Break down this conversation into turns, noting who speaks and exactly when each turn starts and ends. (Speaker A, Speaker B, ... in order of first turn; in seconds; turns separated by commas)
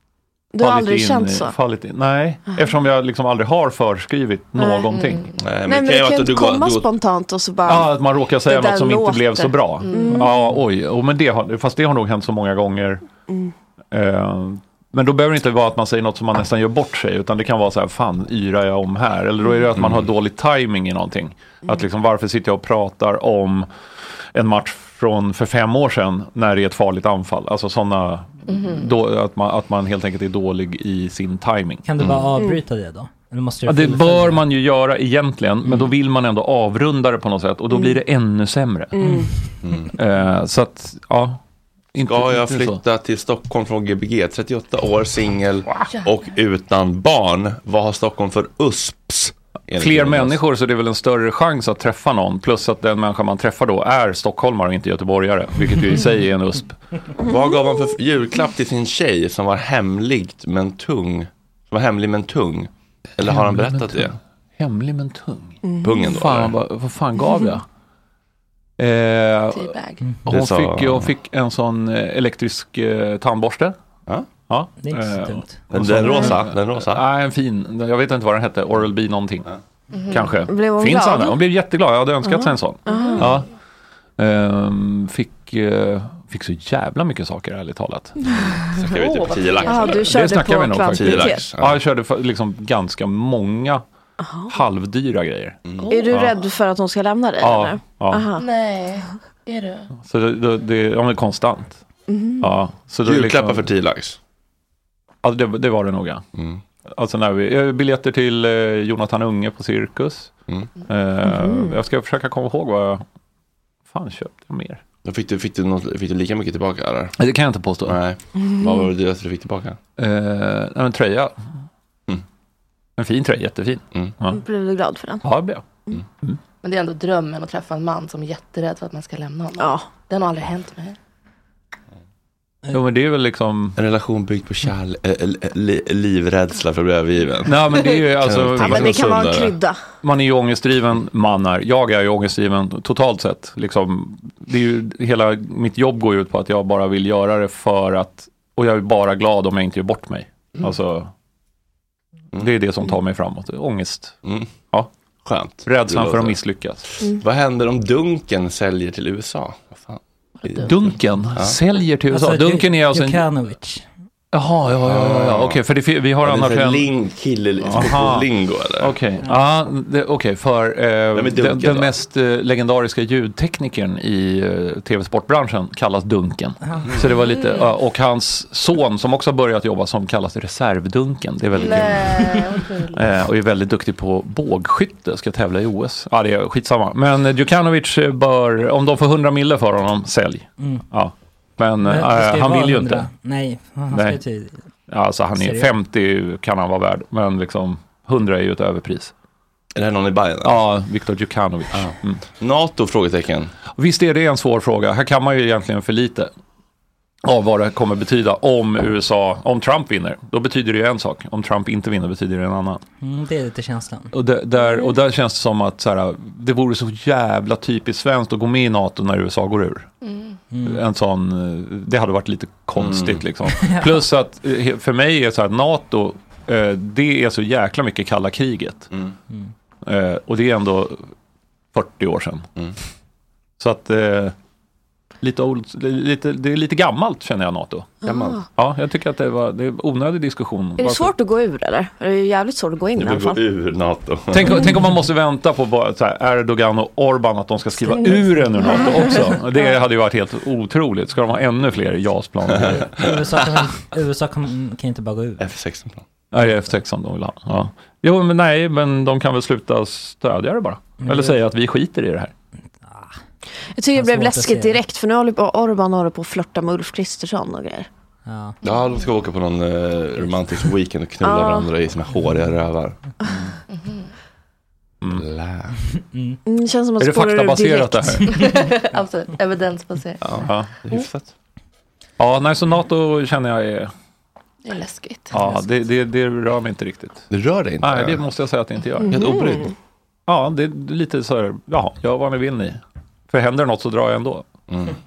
Speaker A: 0.5-1.5, Speaker B: 0.6-5.2, Speaker A: 4.6-4.9, Speaker C: 4.9-5.4, Speaker D: 5.4-6.9, Speaker A: 5.7-7.9, Speaker B: 7.7-13.0, Speaker A: 8.4-10.3, Speaker C: 9.8-10.2, Speaker A: 13.3-13.5, Speaker B: 13.9-23.7, Speaker D: 19.8-20.1, Speaker B: 24.3-31.8, Speaker C: 28.5-28.9, Speaker E: 31.8-34.4, Speaker D: 32.0-32.3, Speaker B: 33.6-39.1, Speaker A: 39.0-39.3, Speaker D: 39.6-39.9, Speaker B: 39.9-41.4, Speaker B: 41.9-42.8, Speaker D: 42.0-50.4, Speaker B: 49.8-56.8, Speaker D: 57.2-64.1, Speaker B: 63.3-67.6, Speaker A: 65.6-66.0, Speaker D: 65.8-66.5, Speaker B: 68.8-69.7, Speaker C: 69.5-70.0, Speaker E: 70.0-70.3, Speaker B: 70.3-73.7, Speaker D: 70.3-71.1, Speaker B: 74.5-79.5, Speaker E: 74.8-75.6, Speaker D: 75.7-77.0, Speaker C: 79.9-80.3, Speaker B: 80.1-83.5, Speaker A: 80.5-81.4, Speaker A: 82.2-83.3, Speaker B: 84.2-88.2, Speaker D: 88.7-90.1, Speaker C: 88.9-90.1, Speaker A: 89.6-91.5, Speaker B: 90.1-93.8, Speaker D: 90.9-91.8, Speaker A: 94.2-94.5, Speaker B: 94.5-95.6, Speaker C: 95.8-96.2, Speaker A: 95.9-98.5, Speaker B: 97.4-98.3, Speaker C: 98.4-99.9, Speaker B: 100.0-101.8, Speaker A: 102.1-102.5, Speaker B: 102.4-103.7, Speaker D: 103.0-104.2, Speaker B: 105.2-106.2, Speaker D: 106.3-106.6, Speaker B: 106.9-110.3, Speaker B: 110.9-113.0, Speaker A: 111.2-111.7, Speaker B: 113.9-114.8, Speaker D: 115.0-117.2, Speaker B: 117.2-118.0, Speaker D: 117.8-119.8, Speaker A: 118.4-118.9, Speaker B: 120.0-121.3, Speaker B: 123.0-124.4, Speaker A: 124.3-125.2, Speaker B: 125.2-125.6, Speaker C: 126.6-131.0, Speaker A: 129.6-129.9, Speaker B: 132.7-133.8, Speaker D: 133.8-139.5, Speaker B: 137.4-139.2, Speaker A: 138.6-139.8, Speaker B: 140.0-151.1, Speaker B: 152.3-154.2, Speaker D: 155.2-156.4, Speaker B: 155.6-156.8, Speaker D: 157.0-161.6, Speaker C: 160.4-160.7, Speaker B: 160.6-163.2, Speaker E: 162.1-163.9, Speaker B: 164.3-166.9, Speaker D: 164.8-165.6, Speaker D: 166.2-168.9, Speaker B: 167.6-168.3, Speaker B: 168.8-182.4, Speaker D: 171.1-171.9, Speaker C: 177.3-177.7, Speaker C: 181.6-183.1, Speaker B: 182.9-193.1, Speaker E: 190.6-190.8, Speaker E: 191.8-194.6, Speaker B: 193.9-194.2, Speaker B: 194.9-199.1, Speaker E: 195.4-195.7, Speaker D: 199.7-200.6, Speaker B: 200.4-202.2, Speaker D: 201.7-203.5, Speaker B: 203.8-206.3, Speaker B: 207.2-212.8, Speaker E: 213.0-214.1, Speaker B: 214.1-219.9, Speaker C: 220.0-220.4, Speaker E: 220.5-220.8, Speaker B: 220.6-228.9, Speaker D: 222.8-223.2, Speaker E: 223.6-224.0, Speaker B: 229.8-231.1, Speaker B: 231.7-232.5, Speaker B: 233.6-234.3, Speaker B: 235.2-237.9, Speaker D: 238.0-238.4, Speaker B: 238.6-241.1, Speaker A: 240.8-243.4, Speaker D: 242.9-244.6, Speaker B: 244.3-252.8, Speaker A: 247.9-249.6, Speaker D: 252.6-253.6, Speaker E: 252.8-255.5, Speaker D: 255.4-256.0, Speaker B: 256.3-262.3, Speaker E: 261.0-261.4, Speaker E: 262.8-263.1, Speaker A: 263.8-267.9, Speaker E: 263.9-264.8, Speaker E: 268.2-268.6, Speaker D: 268.6-273.5, Speaker A: 271.2-271.7, Speaker C: 273.7-274.1, Speaker D: 275.2-275.8, Speaker E: 276.1-276.4, Speaker A: 276.4-278.2, Speaker B: 277.0-278.4, Speaker C: 278.3-280.2, Speaker D: 280.2-281.3, Speaker B: 280.4-280.7, Speaker B: 282.2-283.9, Speaker C: 284.6-285.3, Speaker B: 285.3-287.3, Speaker D: 287.3-288.2, Speaker B: 287.8-289.2, Speaker A: 289.1-289.7, Speaker D: 289.1-289.7, Speaker B: 290.3-294.4, Speaker D: 294.7-294.9